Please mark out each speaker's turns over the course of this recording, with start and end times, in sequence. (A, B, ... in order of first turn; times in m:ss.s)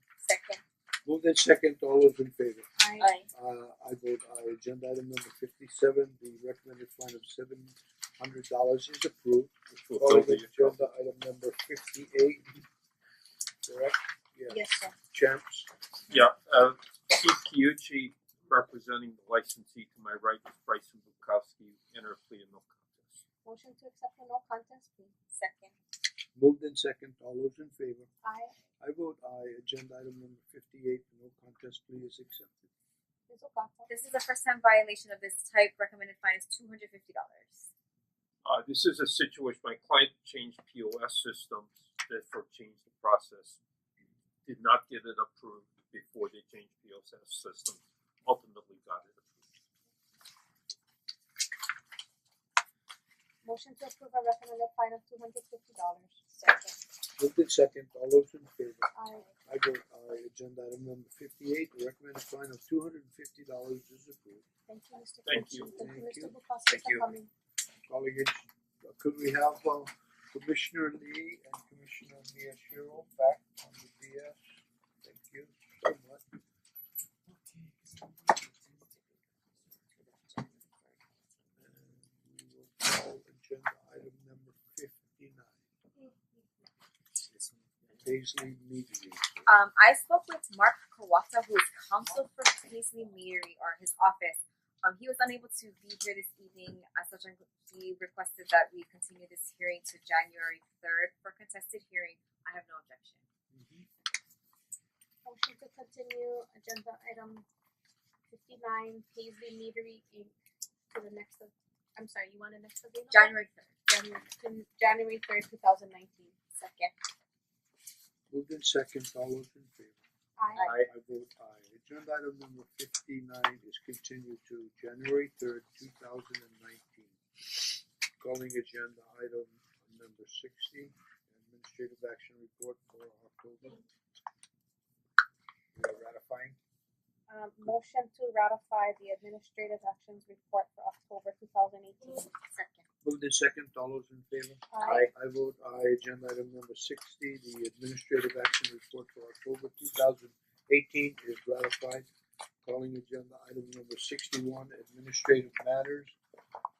0:00.2-0:00.6 A
0:01.0-0:02.7 B
0:02.8-0:03.1 C
0:03.0-0:03.3 A
0:03.3-0:12.6 B
0:09.7-0:10.8 D
0:13.6-0:15.7 B
0:14.5-0:14.9 C
0:16.1-0:23.2 D
0:23.4-0:25.1 C
0:25.3-0:25.7 A
0:26.3-0:28.1 B
0:28.2-0:28.5 C
0:28.8-0:32.7 B
0:33.3-0:33.9 C
0:33.9-0:37.7 A
0:38.4-0:43.6 D
0:44.4-0:49.4 D
0:53.4-0:56.4 C
0:57.2-1:04.4 B
0:59.0-0:59.3 C
1:04.7-1:07.3 C
1:05.2-1:05.7 D
1:05.8-1:07.1 B
1:07.9-1:14.4 B
1:15.0-1:16.2 B
1:20.0-1:20.6 A
1:21.6-1:25.7 B
1:27.9-1:29.5 B
1:29.5-1:43.2 A
1:43.5-1:43.8 B
1:45.2-1:47.4 C
1:48.3-1:50.3 C
1:50.9-1:53.4 C
1:53.1-1:53.7 A
1:53.9-1:56.4 C
1:56.6-1:56.9 A
1:58.3-2:00.0 B
2:00.4-2:00.7 C
2:00.6-2:00.8 A
2:00.7-2:07.6 B
2:08.2-2:13.8 B
2:15.7-2:16.6 B
2:17.3-2:22.3 C
2:22.5-2:22.8 A
2:23.0-2:32.1 B
2:24.7-2:25.1 C
2:24.8-2:25.1 A
2:32.6-2:36.2 B